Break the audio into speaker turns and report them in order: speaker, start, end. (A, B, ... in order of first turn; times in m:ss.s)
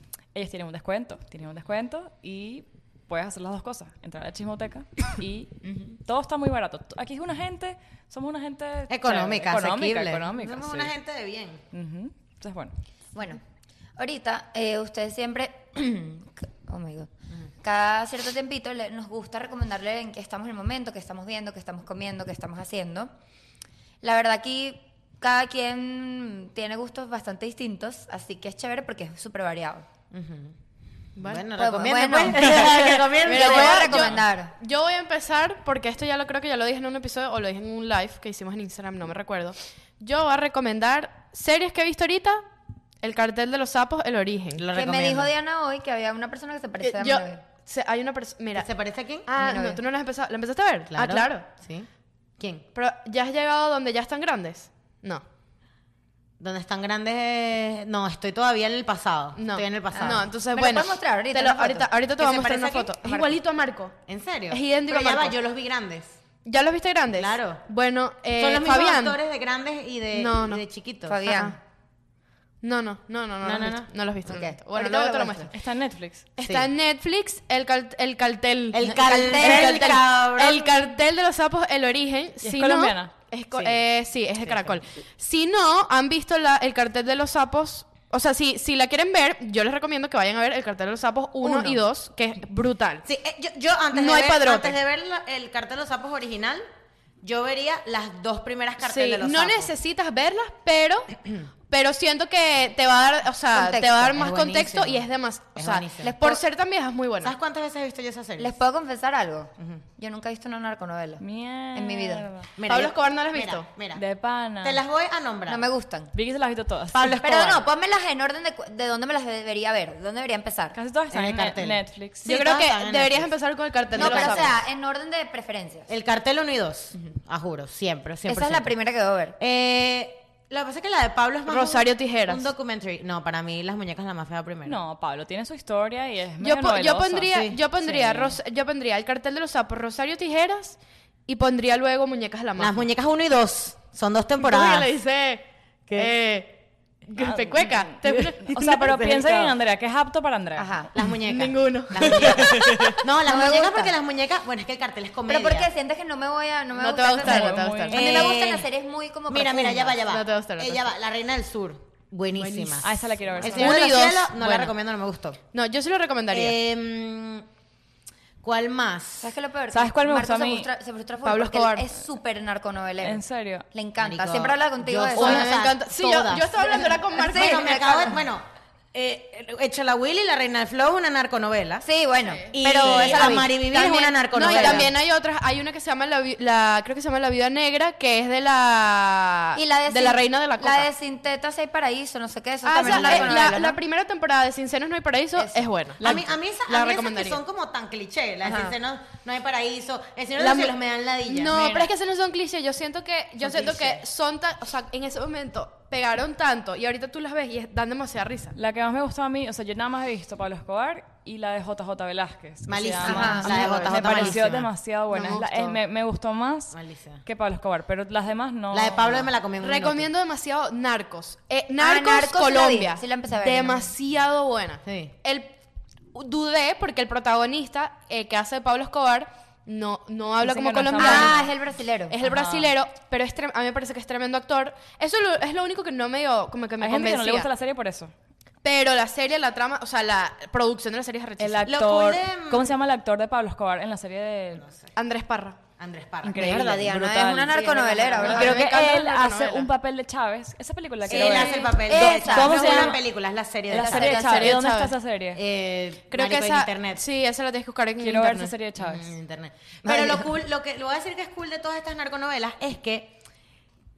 0:00.3-0:10.9 A
0:05.6-0:05.9 B
0:08.9-0:11.6 C
0:11.7-0:12.7 A
0:13.1-0:13.4 B
0:14.0-0:23.1 B
0:24.0-0:29.9 B
0:30.1-0:30.5 C
0:31.2-0:31.4 D
0:31.2-0:34.2 C
0:31.6-0:34.5 B
0:33.2-0:42.4 D
0:43.0-0:44.6 D
0:44.6-0:45.3 C
0:44.7-0:47.4 B
0:46.8-0:48.7 D
0:48.5-0:49.3 C
0:49.2-0:51.4 D
0:49.4-0:49.8 B
0:50.9-0:51.9 C
0:52.4-0:52.6 C
0:52.7-0:55.2 D
0:56.4-1:00.2 C
0:59.4-1:04.0 D
0:59.9-1:01.9 B
1:02.2-1:02.9 C
1:03.0-1:03.3 B
1:04.1-1:06.2 C
1:04.5-1:05.4 D
1:06.4-1:09.2 D
1:07.1-1:07.6 C
1:08.4-1:11.2 C
1:10.1-1:10.6 D
1:11.0-1:11.6 B
1:11.2-1:11.6 D
1:12.6-1:15.5 D
1:13.4-1:13.9 C
1:14.2-1:15.5 B
1:15.5-1:16.3 A
1:16.4-1:33.0 D
1:16.4-1:16.7 C
1:18.7-1:20.7 C
1:18.8-1:20.0 B
1:22.4-1:23.1 A
1:23.5-1:23.8 C
1:24.4-1:24.8 C
1:31.4-1:31.8 B
1:33.0-1:36.6 C
1:33.9-1:34.8 D
1:37.2-1:39.7 C
1:38.8-1:41.1 D
1:41.7-1:47.3 D
1:43.5-1:44.2 B
1:44.1-1:46.1 C
1:46.0-1:46.4 B
1:47.2-1:48.6 C
1:48.4-1:51.2 B
1:51.2-1:52.5 A
1:51.7-1:52.3 B
1:52.6-1:54.0 C
1:52.6-1:53.7 D
1:53.9-1:54.8 A
1:54.6-1:55.6 C
1:55.4-1:56.1 B
1:56.1-1:57.6 A
1:56.9-1:57.6 C
1:57.2-2:00.8 B
2:00.7-2:02.4 A
2:01.1-2:03.3 C
2:02.2-2:04.5 D
2:03.9-2:04.6 C
2:04.0-2:05.9 B
2:05.9-2:08.7 C
2:08.3-2:09.4 B
2:09.4-2:14.8 C
2:11.4-2:12.4 D
2:14.6-2:18.4 A
2:16.4-2:22.8 D
2:22.6-2:24.9 C
2:24.4-2:29.1 D
2:25.9-2:26.1 C
2:27.2-2:30.7 A
2:28.1-2:29.5 C
2:30.6-2:30.9 B
2:30.9-2:35.7 C
2:31.2-2:33.0 D
2:32.2-2:32.6 A
2:33.2-2:34.0 B
2:35.3-2:40.0 B
2:36.7-2:38.0 D
2:37.2-2:38.0 A
2:37.9-2:38.7 C
2:39.3-2:45.4 C
2:40.1-2:40.9 D
2:42.3-2:44.7 D
2:42.8-2:43.8 A
2:45.5-2:46.6 D
2:46.3-2:47.4 C
2:48.4-2:49.3 C
2:49.2-2:55.5 B
2:49.7-2:50.7 A
2:51.2-2:51.9 D
2:53.0-2:53.7 A
2:54.0-3:01.8 C
2:55.1-2:57.9 D
2:56.5-2:58.2 B
3:01.8-3:04.9 B
3:02.2-3:10.9 D
3:02.5-3:04.9 C
3:09.5-3:13.8 B
3:12.6-3:16.0 D
3:12.8-3:13.4 C
3:15.4-3:15.7 B
3:16.0-3:16.4 A
3:16.0-3:21.9 C
3:16.7-3:17.4 D
3:18.4-3:18.8 B
3:20.4-3:20.7 D
3:21.2-3:28.6 D
3:23.4-3:24.0 C
3:28.6-3:39.3 A
3:32.7-3:34.7 C
3:33.0-3:33.6 B
3:33.4-3:34.4 D
3:35.1-3:35.8 D
3:36.7-3:37.2 C
3:38.7-3:40.1 C
3:39.6-3:45.5 D
3:41.8-3:43.9 B
3:44.8-3:45.1 C
3:46.1-3:51.4 D
3:50.4-3:51.5 A
3:51.0-3:52.2 B
3:52.1-3:57.5 D
3:52.3-3:52.6 A
3:56.8-3:58.1 A
3:58.6-4:01.7 D
4:01.4-4:04.7 A
4:01.6-4:02.7 C
4:04.6-4:04.9 C
4:05.0-4:05.6 D
4:05.8-4:06.7 C
4:06.2-4:13.0 A
4:06.3-4:08.6 B
4:07.5-4:08.3 C
4:08.2-4:09.7 D
4:11.1-4:14.5 C
4:11.1-4:13.0 B
4:13.7-4:15.4 A
4:13.7-4:14.5 B
4:14.0-4:14.9 D
4:15.3-4:17.0 C
4:16.1-4:18.5 D
4:18.0-4:19.1 A
4:18.8-4:23.2 C
4:19.8-4:20.3 B